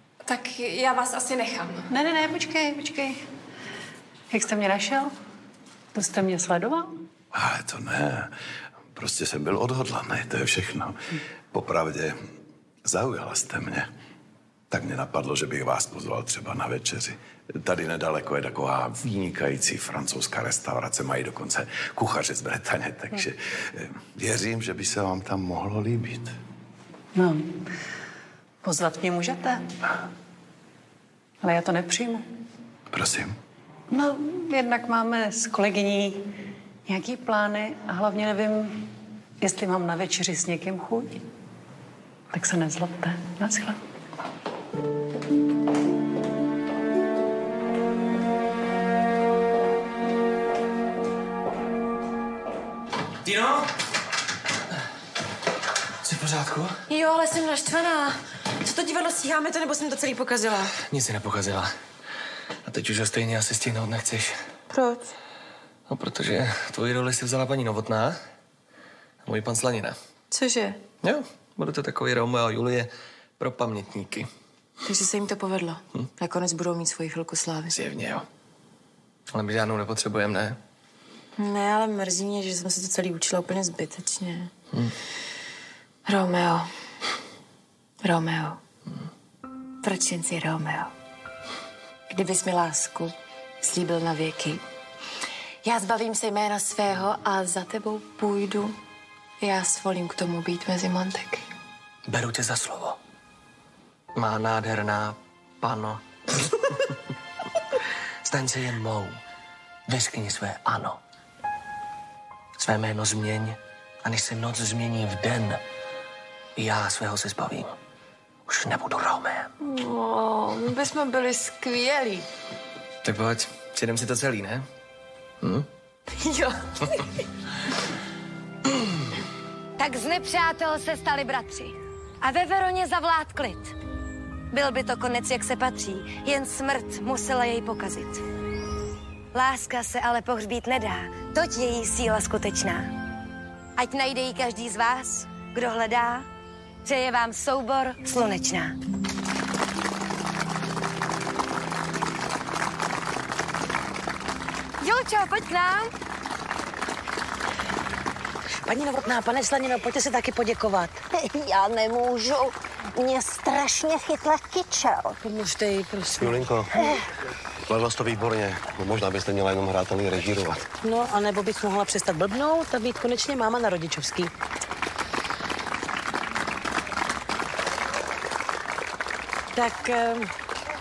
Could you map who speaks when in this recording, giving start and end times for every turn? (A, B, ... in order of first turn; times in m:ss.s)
0:00.2-0:01.9 A
0:01.9-0:03.2 B
0:04.3-0:05.1 B
0:05.9-0:07.0 B
0:07.3-0:08.3 C
0:09.0-0:11.0 C
0:11.5-0:12.2 C
0:12.8-0:13.9 C
0:14.7-0:26.3 C
0:27.2-0:27.5 B
0:28.6-0:29.6 B
0:31.4-0:32.2 B
0:32.9-0:33.4 C
0:33.9-0:36.3 B
0:36.9-0:38.9 B
0:39.4-0:41.2 B
0:42.3-0:43.8 B
0:53.3-0:53.7 D
0:56.0-0:56.8 D
0:56.9-1:00.7 A
1:00.9-1:01.7 D
1:02.6-1:04.4 D
1:04.7-1:05.1 A
1:05.9-1:08.2 D
1:09.2-1:10.0 D
1:10.3-1:10.8 A
1:11.0-1:14.3 D
1:14.8-1:17.7 A
1:17.7-1:18.3 D
1:19.3-1:20.6 D
1:21.4-1:24.5 A
1:26.1-1:26.7 A
1:28.0-1:28.6 A
1:29.8-1:30.9 A
1:32.1-1:34.6 A
1:35.6-1:38.8 A
1:39.4-1:41.4 A
1:42.1-1:43.0 D
1:44.2-1:46.0 D
1:48.2-1:49.2 D
1:49.9-1:51.0 D
1:52.6-1:55.6 D
1:56.6-1:57.8 D
1:58.5-1:59.5 D
1:59.6-2:02.3 A
2:03.0-2:04.7 D
2:05.4-2:05.7 D
2:06.1-2:07.0 A
2:09.8-2:13.7 E
2:14.5-2:18.2 E
2:19.3-2:22.9 E
2:23.8-2:26.3 E
2:26.8-2:28.8 E
2:34.8-2:35.9 E
2:38.6-2:41.0 F
2:41.1-2:45.2 G
2:45.2-2:46.5 F
2:46.2-2:46.7 H
2:47.7-2:50.6 H
2:50.8-2:54.3 F
2:59.5-3:00.3 F